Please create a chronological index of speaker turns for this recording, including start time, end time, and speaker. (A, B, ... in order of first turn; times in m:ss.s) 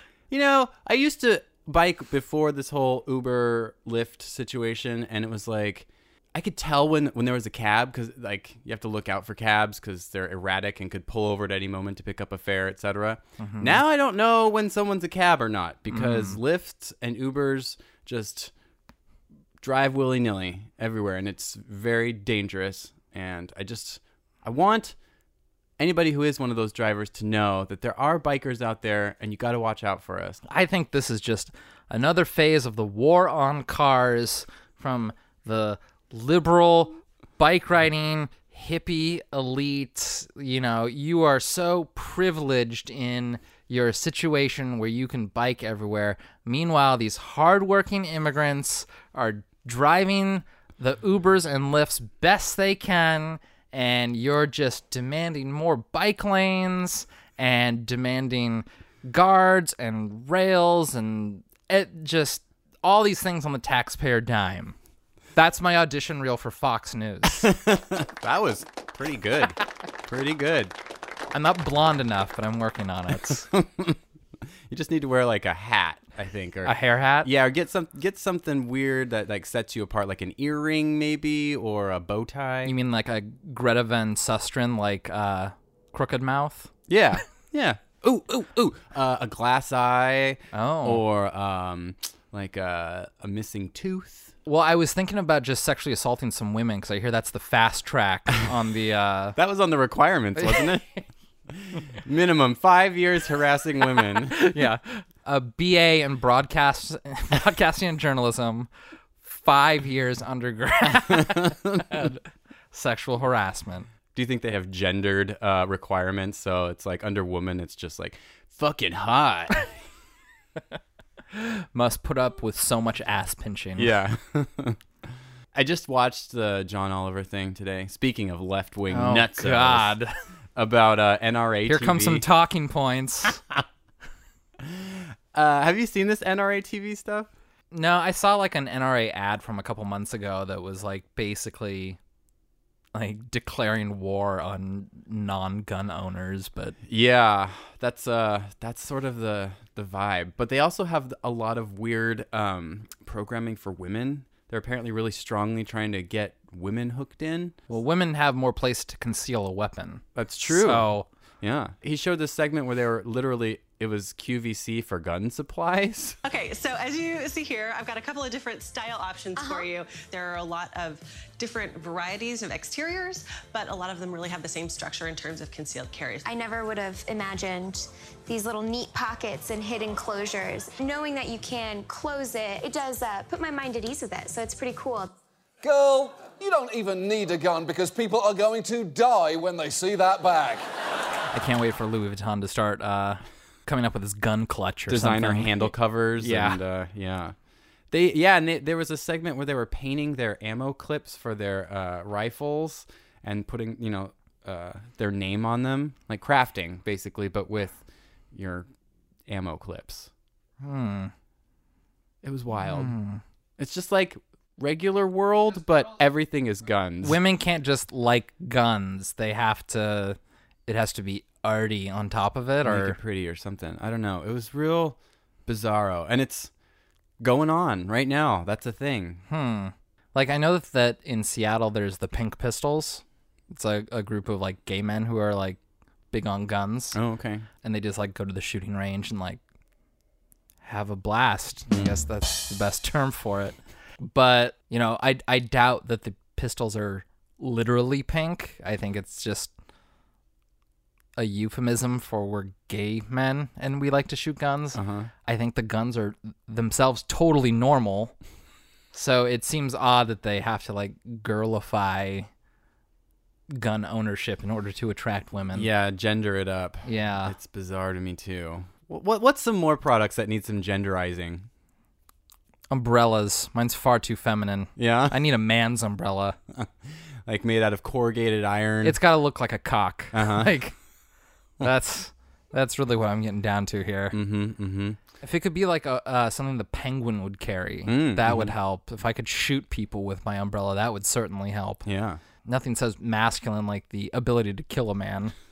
0:00.3-0:18.5 A
0:13.4-0:13.8 B
0:15.9-0:16.4 B
0:19.6-0:25.0 A
0:25.8-0:30.4 A
0:30.5-1:04.8 B
1:05.4-1:07.5 B
1:07.4-1:10.8 A
1:11.3-1:13.5 B
1:13.3-1:14.0 A
1:14.7-1:22.8 A
1:16.6-1:17.3 B
1:22.6-1:26.7 B
1:26.9-1:34.3 A
1:30.5-1:31.0 B
1:34.4-1:39.4 B
1:39.4-1:44.4 A
1:40.4-1:40.7 B
1:44.3-1:48.7 B
1:49.2-1:52.2 B
1:51.1-1:51.9 A
1:52.7-1:53.9 B
1:54.1-1:59.6 A
2:01.3-2:03.9 B
2:03.8-2:04.8 A
2:05.5-2:10.0 A
2:08.9-2:10.1 B
2:10.6-2:12.3 A
2:11.7-2:13.4 B
2:14.6-2:17.3 A
2:17.7-2:22.0 B
2:23.0-2:26.8 B
2:26.9-2:37.6 A
2:37.7-2:41.1 B
2:40.2-2:40.9 A
2:41.4-2:46.2 A
2:46.2-2:56.3 C
2:49.4-2:49.7 D
2:56.2-3:05.1 D
3:05.6-3:10.6 E
3:11.3-3:16.6 B
3:14.9-3:17.4 A
3:17.9-3:27.8 A
3:28.3-3:28.7 A
3:29.3-3:30.1 A
3:30.6-3:31.1 B
3:32.2-3:33.0 A
3:32.6-3:33.2 B
3:33.6-3:37.2 A
3:37.0-3:43.0 B
3:42.6-3:46.5 A
3:47.2-3:49.2 A
3:49.3-3:55.6 B
3:56.1-3:57.0 B
3:56.9-3:57.5 A
3:57.6-3:59.4 B
4:00.6-4:09.5 B
4:01.7-4:02.0 A
4:11.2-4:18.2 B
4:14.8-4:15.1 A
4:18.9-4:22.3 B
4:23.5-4:25.7 B
4:25.6-4:31.5 A
4:26.8-4:27.4 B
4:32.7-4:36.4 B
4:34.8-4:35.2 A
4:36.5-4:39.0 A
4:38.8-4:40.8 B
4:40.1-4:40.5 A
4:41.6-4:44.2 B
4:44.1-4:45.0 A
4:45.2-4:51.9 B
4:47.9-4:48.5 A
4:51.9-4:52.2 A
4:52.4-4:55.3 B